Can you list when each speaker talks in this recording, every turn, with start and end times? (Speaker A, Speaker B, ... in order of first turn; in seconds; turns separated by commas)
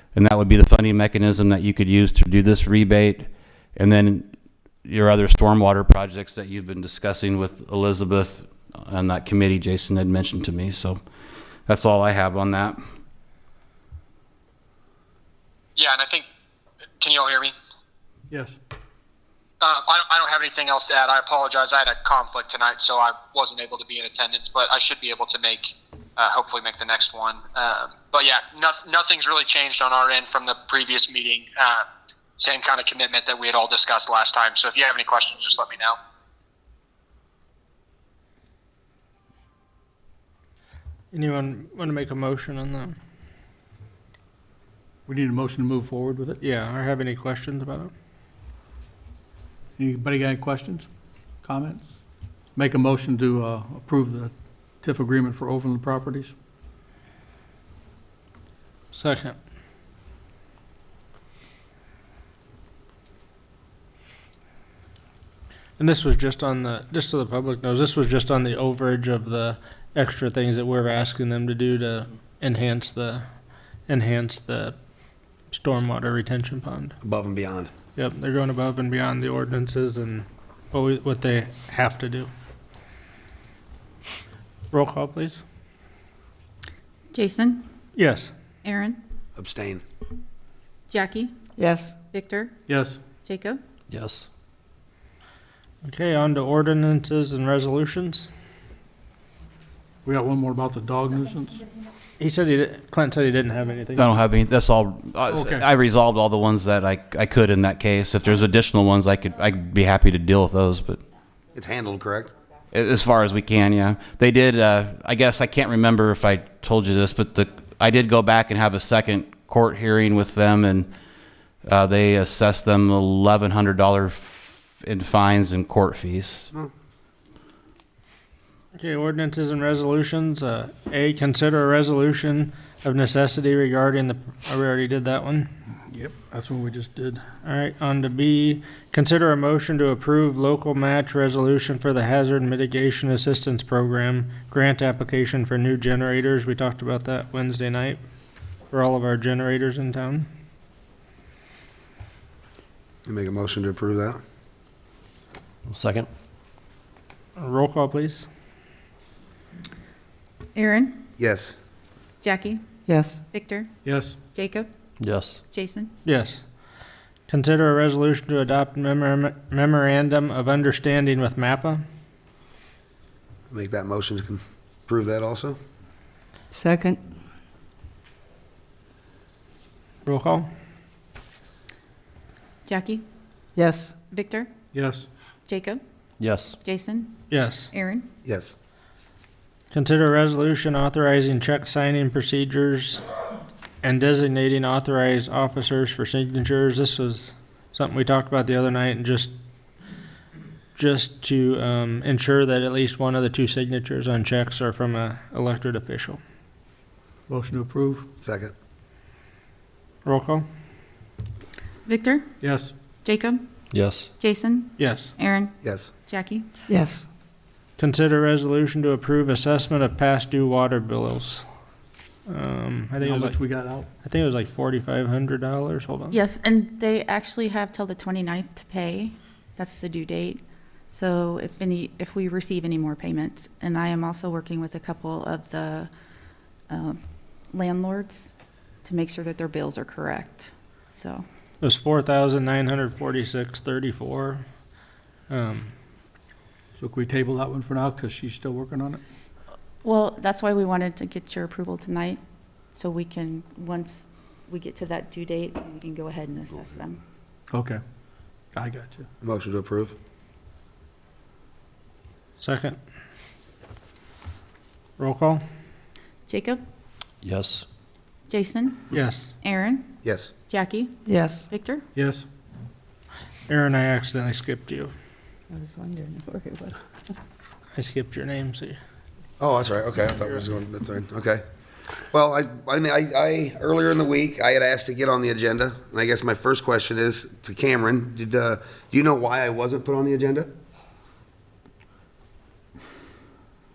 Speaker A: 0.1-4.3, Speaker A: 4.8-11.0, Speaker A: 11.7-12.8, Speaker B: 15.8-16.3, Speaker B: 17.0-17.5, Speaker C: 18.3-18.6, Speaker B: 19.6-31.8, Speaker B: 32.4-36.0, Speaker D: 41.1-43.0, Speaker C: 45.1-46.4, Speaker D: 46.4-47.9, Speaker C: 49.8-50.9, Speaker C: 51.4-51.9, Speaker C: 52.6-56.3, Speaker D: 58.9-59.4, Speaker D: 65.8-73.3, Speaker D: 73.9-74.8, Speaker D: 75.5-77.0, Speaker E: 77.0-77.7, Speaker D: 78.0-82.3, Speaker D: 84.7-85.4, Speaker F: 87.1-87.7, Speaker D: 88.0-88.3, Speaker F: 88.6-89.0, Speaker E: 89.4-89.8, Speaker F: 90.9-91.3, Speaker G: 91.6-92.0, Speaker F: 92.1-92.5, Speaker C: 92.7-93.0, Speaker F: 93.2-93.6, Speaker H: 93.9-94.3, Speaker D: 95.8-98.3, Speaker C: 100.0-101.6, Speaker D: 102.2-104.1, Speaker A: 104.0-111.0, Speaker C: 105.3-105.7, Speaker E: 111.5-112.3, Speaker A: 112.7-120.9, Speaker A: 121.6-126.5, Speaker D: 128.8-135.5, Speaker C: 135.9-137.2, Speaker D: 137.4-148.0, Speaker D: 148.7-150.3, Speaker E: 153.1-154.2, Speaker H: 155.7-156.1, Speaker D: 157.4-158.3, Speaker F: 160.6-161.0, Speaker E: 161.2-161.6, Speaker F: 162.2-162.6, Speaker G: 162.9-163.2, Speaker F: 163.3-163.7, Speaker C: 163.8-164.2, Speaker F: 164.3-164.7, Speaker H: 165.0-165.4, Speaker F: 165.5-165.9, Speaker D: 166.1-166.4, Speaker D: 167.3-171.8, Speaker E: 173.5-175.6, Speaker G: 176.5-177.0, Speaker D: 180.1-180.5, Speaker F: 182.7-183.0, Speaker G: 183.6-183.9, Speaker F: 184.1-184.5, Speaker C: 184.7-185.1, Speaker F: 185.5-185.8, Speaker H: 186.2-186.6, Speaker F: 186.6-187.1, Speaker D: 187.3-187.7, Speaker F: 187.7-188.1, Speaker E: 188.2-188.5, Speaker D: 189.7-193.0, Speaker D: 193.8-199.3, Speaker D: 200.8-206.2, Speaker C: 207.3-208.1, Speaker E: 208.2-208.5, Speaker D: 210.1-210.4, Speaker F: 211.9-212.3, Speaker C: 212.4-212.7, Speaker F: 213.0-213.4, Speaker H: 213.7-214.1, Speaker F: 214.2-216.4, Speaker D: 214.8-215.1, Speaker E: 215.6-215.9, Speaker G: 216.7-217.1, Speaker D: 217.8-221.5, Speaker D: 222.3-223.4, Speaker C: 223.0-223.9, Speaker D: 224.0-226.2, Speaker F: 226.1-235.9, Speaker F: 236.7-237.0, Speaker F: 237.5-238.3, Speaker F: 238.8-241.2, Speaker D: 241.6-244.4, Speaker D: 245.3-245.7, Speaker C: 246.8-249.0, Speaker F: 249.8-252.2, Speaker F: 252.7-257.0, Speaker C: 257.5-257.8, Speaker C: 258.5-259.1, Speaker E: 259.2-259.9, Speaker D: 262.4-262.8, Speaker D: 265.0-265.4, Speaker F: 266.3-266.6, Speaker H: 267.2-267.7, Speaker F: 268.3-268.8, Speaker D: 268.9-269.3, Speaker F: 269.4-269.9, Speaker E: 270.0-270.3, Speaker F: 270.5-271.8, Speaker G: 271.1-271.5, Speaker C: 271.9-272.2, Speaker D: 273.5-274.9, Speaker G: 275.5-276.8, Speaker D: 277.8-278.8, Speaker E: 279.4-281.4, Speaker E: 282.1-290.5